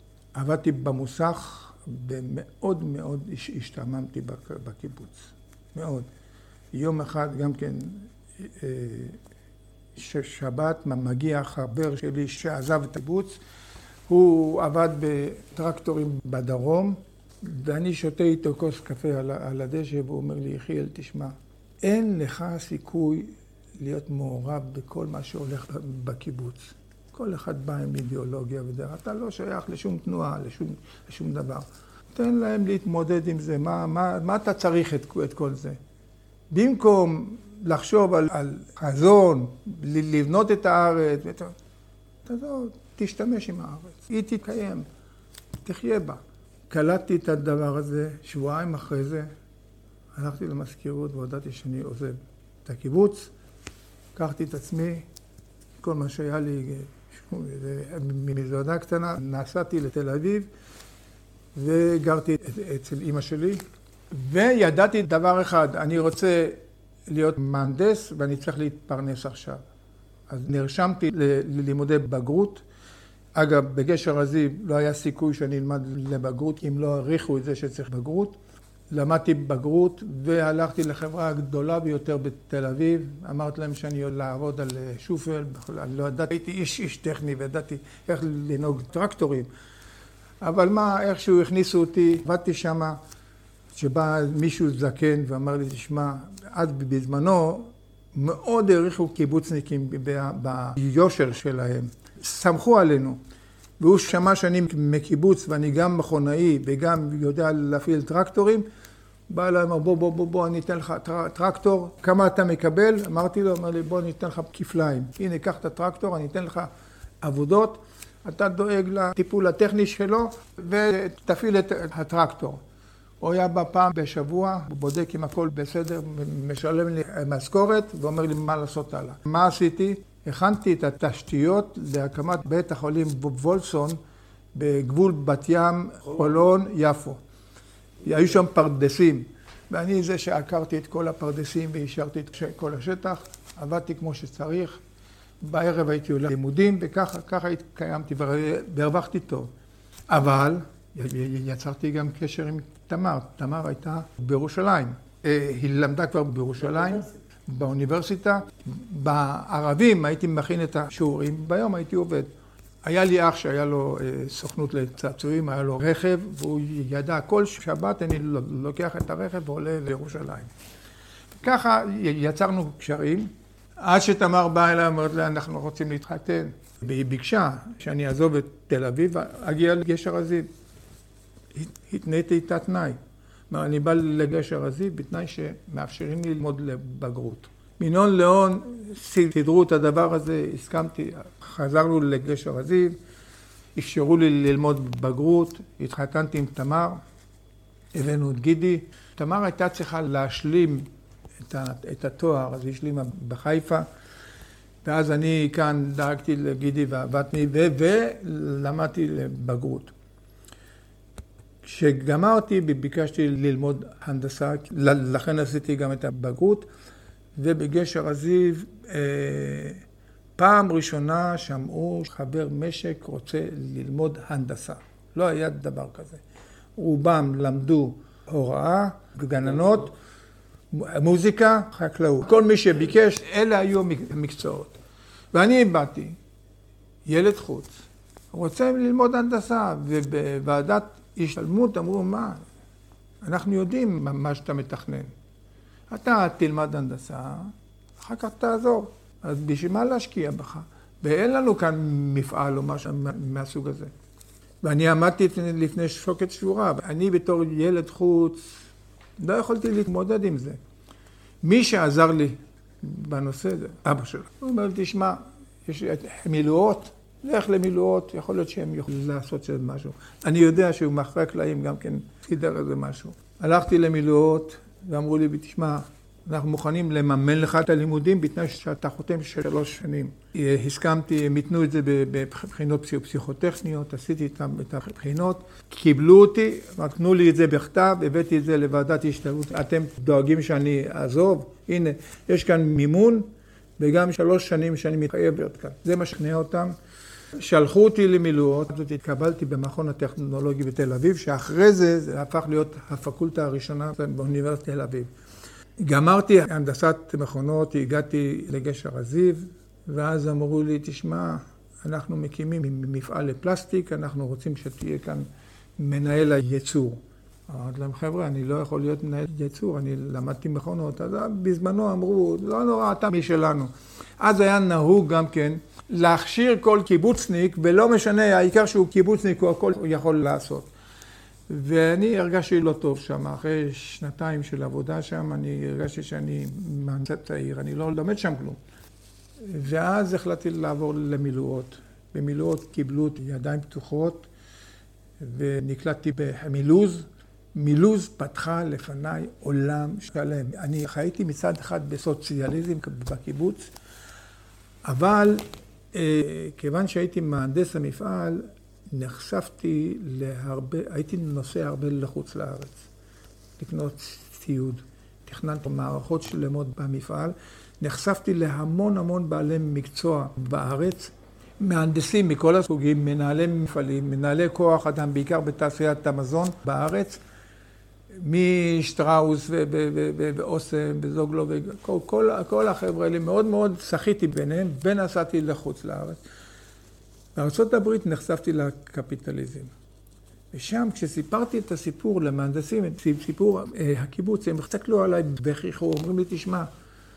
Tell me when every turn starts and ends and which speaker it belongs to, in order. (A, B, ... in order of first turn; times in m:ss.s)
0:00.3-0:06.1 A
0:06.7-0:09.2 A
0:10.0-0:13.4 A
0:14.1-0:35.8 A
0:36.5-0:41.5 A
0:42.2-0:44.8 A
0:45.6-0:49.3 A
0:50.1-0:53.3 A
0:54.2-0:55.0 A
0:55.8-1:00.5 A
1:01.5-1:09.6 A
1:10.3-1:12.6 A
1:13.4-1:18.4 A
1:18.9-1:29.5 A
1:30.4-1:33.0 A
1:33.7-1:43.2 A
1:43.8-1:48.6 A
1:49.3-1:56.7 A
1:57.2-2:02.6 A
2:03.2-2:14.0 A
2:14.5-2:17.2 A
2:18.0-2:24.8 A
2:25.4-2:29.5 A
2:30.1-2:42.3 A
2:42.8-2:50.5 A
2:51.4-2:53.3 A
2:53.8-3:00.5 A
3:01.5-3:03.0 A
3:03.5-3:13.0 A
3:13.8-3:17.0 A
3:17.9-3:20.9 A
3:21.4-3:23.8 A
3:24.8-3:29.9 A
3:31.6-3:36.7 A
3:37.4-3:39.8 A
3:40.4-3:46.2 A
3:46.8-3:49.9 A
3:50.7-3:54.8 A
3:55.3-3:56.2 A
3:57.0-3:57.8 A
3:58.3-4:02.4 A
4:03.2-4:05.1 A
4:05.9-4:13.9 A
4:14.6-4:18.6 A
4:19.2-4:20.6 A
4:21.4-4:56.7 A
4:57.4-5:05.1 A
5:05.8-5:15.3 A
5:15.8-5:30.7 A
5:31.5-5:38.6 A
5:39.4-5:44.3 A
5:45.2-5:53.7 A
5:54.8-6:02.8 A
6:03.6-6:17.2 A
6:18.2-6:26.2 A
6:27.3-6:29.7 A
6:30.5-6:36.7 A